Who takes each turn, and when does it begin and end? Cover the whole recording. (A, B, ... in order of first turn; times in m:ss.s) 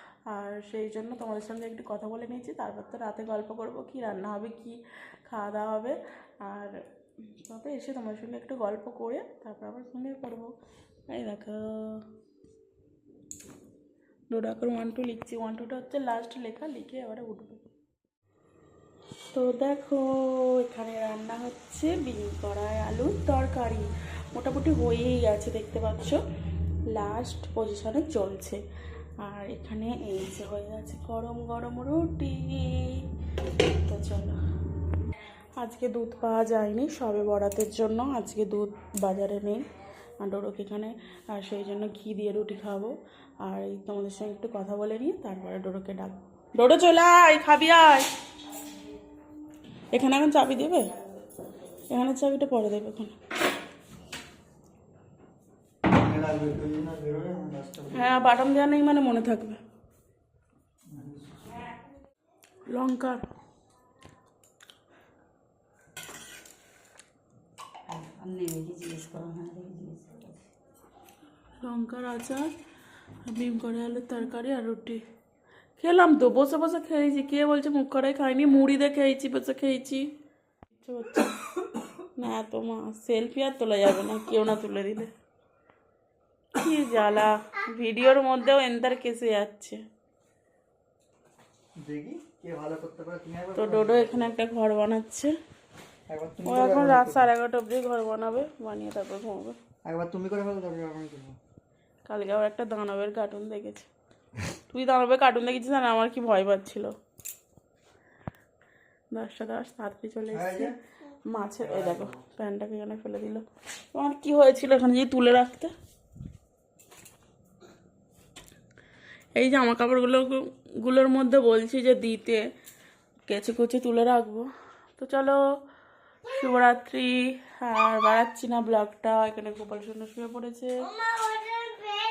0:00.3-0:06.8 A
0:07.4-0:10.5 A
0:11.1-0:12.1 A
0:14.3-0:17.7 A
0:19.3-0:26.2 A
0:26.9-0:28.6 A
0:29.2-0:33.1 A
0:33.7-0:34.4 A
0:35.6-0:39.6 A
0:40.2-0:48.1 A
0:49.9-0:51.0 A
0:51.9-0:53.2 A
0:55.9-0:58.1 B
0:57.9-0:59.6 A
1:00.9-1:01.6 B
1:02.7-1:03.3 A
1:07.9-1:10.5 C
1:11.6-1:12.5 A
1:13.2-1:15.0 A
1:15.8-1:20.1 A
1:20.8-1:21.4 A
1:22.2-1:25.1 A
1:26.6-1:29.8 A
1:31.8-1:34.4 B
1:33.6-1:35.4 A
1:36.1-1:37.3 B
1:36.4-1:39.6 A
1:39.8-1:41.4 B
1:42.1-1:43.9 A
1:44.7-1:46.9 A
1:49.1-1:50.8 A
1:50.3-1:50.8 B
1:51.3-1:55.7 A
1:51.6-1:52.2 B
1:59.4-2:02.4 A
2:03.3-2:05.4 A
2:06.3-2:11.1 A